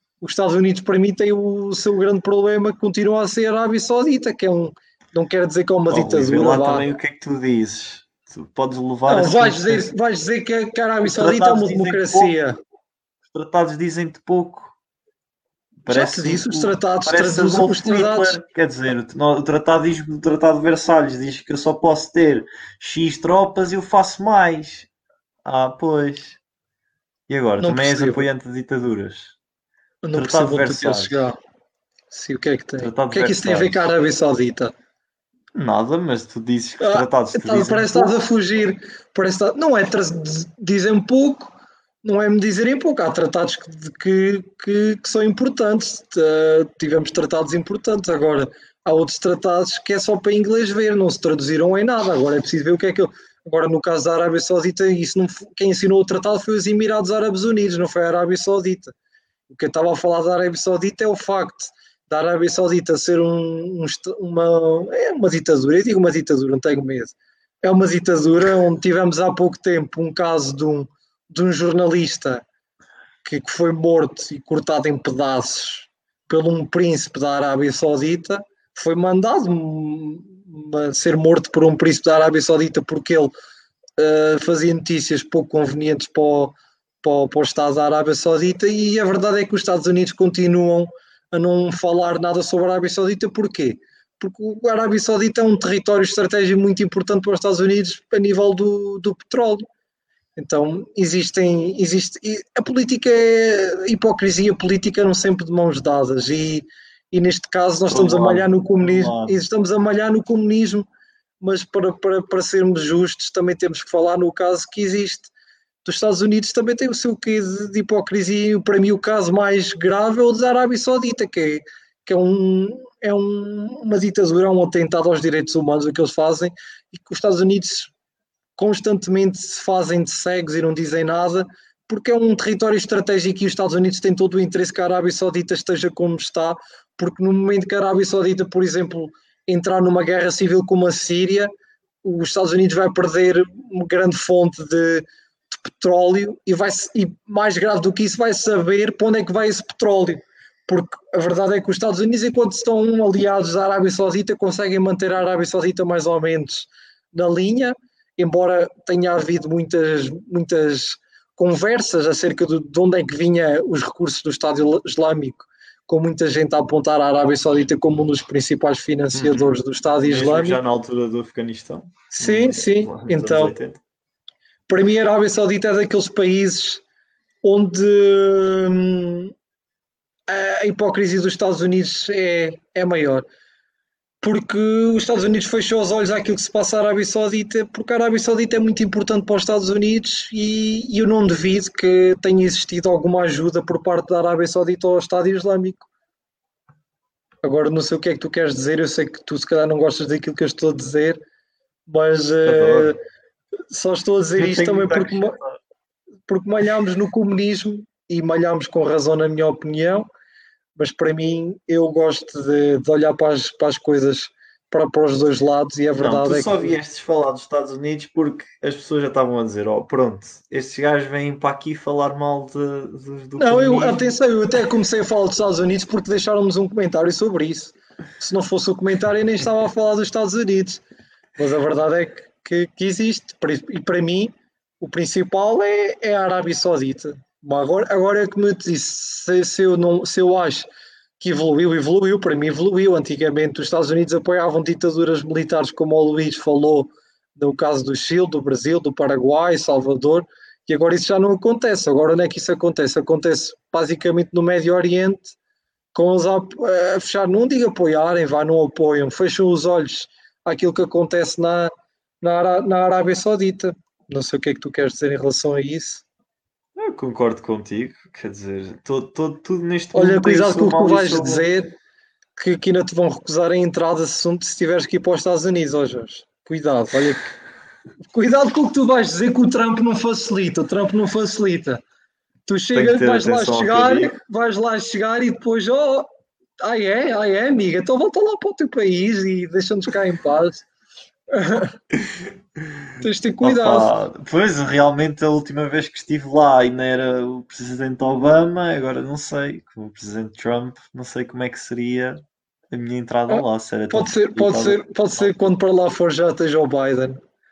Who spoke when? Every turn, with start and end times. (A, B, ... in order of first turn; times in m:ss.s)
0:00.2-0:06.8 A
0:05.9-0:09.9 B
0:09.1-0:12.6 A
0:11.0-0:12.3 B
0:13.3-0:14.8 B
0:15.8-0:24.9 B
0:15.9-0:18.4 A
0:25.4-0:26.4 B
0:27.3-0:29.4 B
0:27.6-0:28.2 A
0:30.0-0:31.4 A
0:30.1-0:31.2 B
0:32.1-0:34.7 A
0:32.8-0:33.9 B
0:35.5-0:38.2 B
0:36.8-0:58.9 A
0:59.5-1:12.4 A
1:13.2-1:23.3 A
1:24.0-1:39.6 A
1:40.4-1:50.8 A
1:47.9-1:49.4 B
1:51.4-1:55.3 A
1:55.8-2:07.9 A
2:08.6-2:21.5 A
2:22.0-2:50.6 A
2:49.1-2:53.8 B
2:52.1-2:53.5 A
2:54.7-2:56.8 A
2:57.4-2:59.3 A
3:00.3-3:03.2 A
3:04.2-3:15.9 A
3:17.4-3:21.2 A
3:21.9-3:23.0 A
3:22.4-3:23.0 B
3:23.7-3:25.4 A
3:24.4-3:25.6 B
3:26.3-3:30.0 A
3:30.8-3:36.8 A
3:36.0-3:44.2 B
3:43.4-3:50.8 A
3:51.4-4:00.7 A
4:01.2-4:15.4 A
4:15.9-4:21.7 A
4:22.2-4:26.0 A
4:26.8-4:31.4 B
4:29.9-4:31.7 A
4:32.4-4:37.3 A
4:38.1-4:41.8 A
4:42.4-4:46.1 A
4:42.7-4:44.2 B
4:46.6-4:50.7 A
4:51.3-4:51.8 A
4:51.9-4:52.9 B
4:53.0-4:53.9 A
4:53.4-5:05.3 B
5:03.3-5:07.2 A